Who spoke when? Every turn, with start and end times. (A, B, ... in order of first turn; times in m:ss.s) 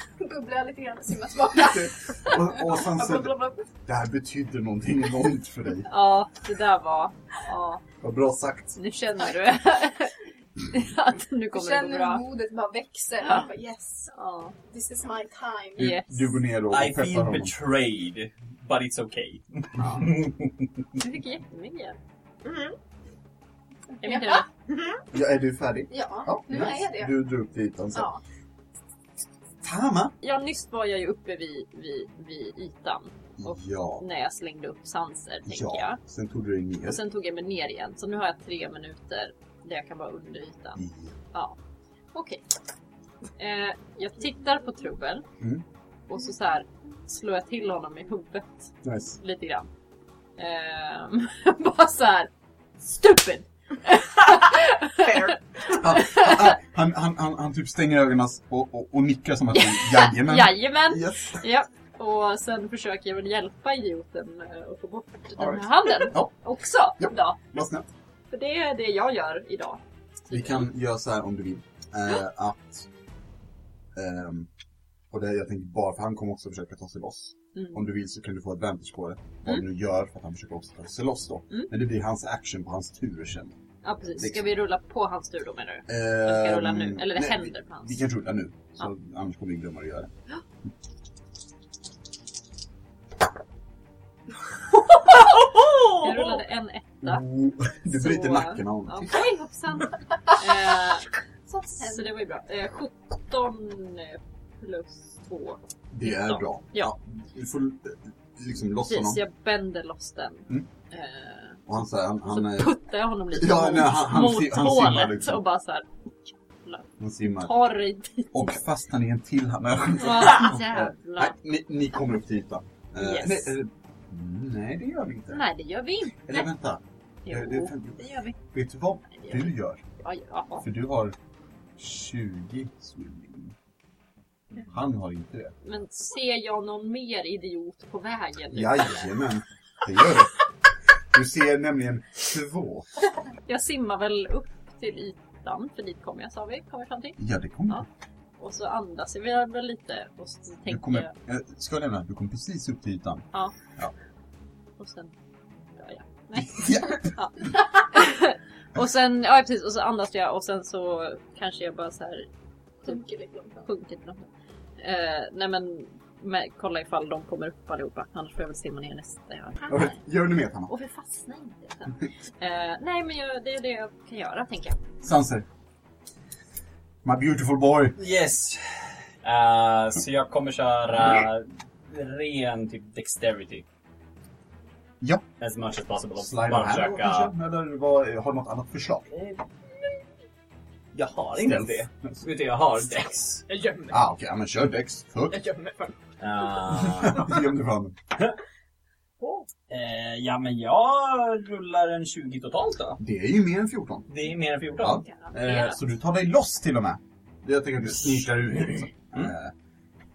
0:00.2-0:03.6 A
0:01.5-0:05.9 B
0:05.9-0:07.8 C
0:08.0-0:08.8 B
0:08.8-0:12.2 C
0:11.5-0:14.1 A
0:13.2-0:13.5 C
0:14.1-0:14.5 C
0:14.7-0:16.0 A
0:15.8-0:16.2 C
0:15.8-0:17.5 B
0:16.7-0:20.7 D
0:19.8-0:20.1 B
0:21.0-0:22.0 C
0:22.4-0:22.8 E
0:24.0-0:24.5 C
0:24.0-0:24.5 A
0:24.7-0:25.0 E
0:25.1-0:28.1 B
0:25.9-0:27.1 A
0:27.9-0:28.2 A
0:29.6-0:30.1 B
0:30.2-0:36.0 C
0:33.4-0:34.0 B
0:35.5-0:37.0 B
0:36.8-0:40.8 C
0:40.8-0:41.2 B
0:42.1-0:42.4 C
0:43.4-0:45.2 C
0:46.1-0:49.7 C
0:48.8-0:49.2 B
0:50.4-0:56.4 C
0:55.0-0:55.7 E
0:55.7-1:01.4 B
0:59.5-1:07.5 C
1:05.4-1:06.3 B
1:07.0-1:07.9 B
1:08.3-1:10.6 C
1:10.3-1:12.9 B
1:13.9-1:14.5 B
1:15.1-1:23.6 B
1:17.5-1:17.8 C
1:23.8-1:28.0 C
1:24.2-1:24.5 B
1:25.9-1:30.1 B
1:34.9-1:36.4 E
1:35.9-1:37.2 C
1:37.0-1:39.2 B
1:37.8-1:41.1 C
1:41.7-1:46.9 C
1:45.9-1:49.2 B
1:48.8-1:51.6 C
1:51.7-1:52.8 B
1:52.2-1:58.5 C
1:53.3-1:55.4 B
1:57.0-1:57.5 B
1:58.3-2:05.4 B
2:00.0-2:01.4 C
2:03.0-2:03.6 C
2:05.3-2:06.5 C
2:06.2-2:09.8 B
2:07.2-2:08.4 C
2:09.1-2:10.7 C
2:10.6-2:11.2 B
2:11.8-2:13.5 B
2:14.6-2:15.5 B
2:15.6-2:19.1 C
2:18.5-2:20.4 B
2:21.1-2:22.9 B
2:23.4-2:27.8 C
2:27.2-2:27.8 B
2:28.4-2:31.1 C
2:30.7-2:33.9 B
2:34.8-2:35.2 C
2:35.8-2:42.3 C
2:36.3-2:37.1 B
2:42.8-2:43.7 A
2:43.6-2:44.3 C
2:44.8-2:50.0 C
2:49.7-2:50.7 B
2:50.7-2:54.8 C
2:55.0-2:55.4 B
2:57.0-2:58.0 B
2:58.0-3:03.6 D
3:05.4-3:07.3 D
3:06.2-3:09.1 B
3:09.1-3:09.4 D
3:10.9-3:13.4 D
3:11.3-3:12.2 B
3:13.5-3:14.0 E
3:13.9-3:15.4 B
3:15.3-3:16.0 E
3:16.2-3:17.4 D
3:16.7-3:18.0 B
3:19.7-3:23.0 D
3:23.0-3:24.1 B
3:24.1-3:25.0 D
3:24.8-3:29.5 B
3:25.2-3:25.8 C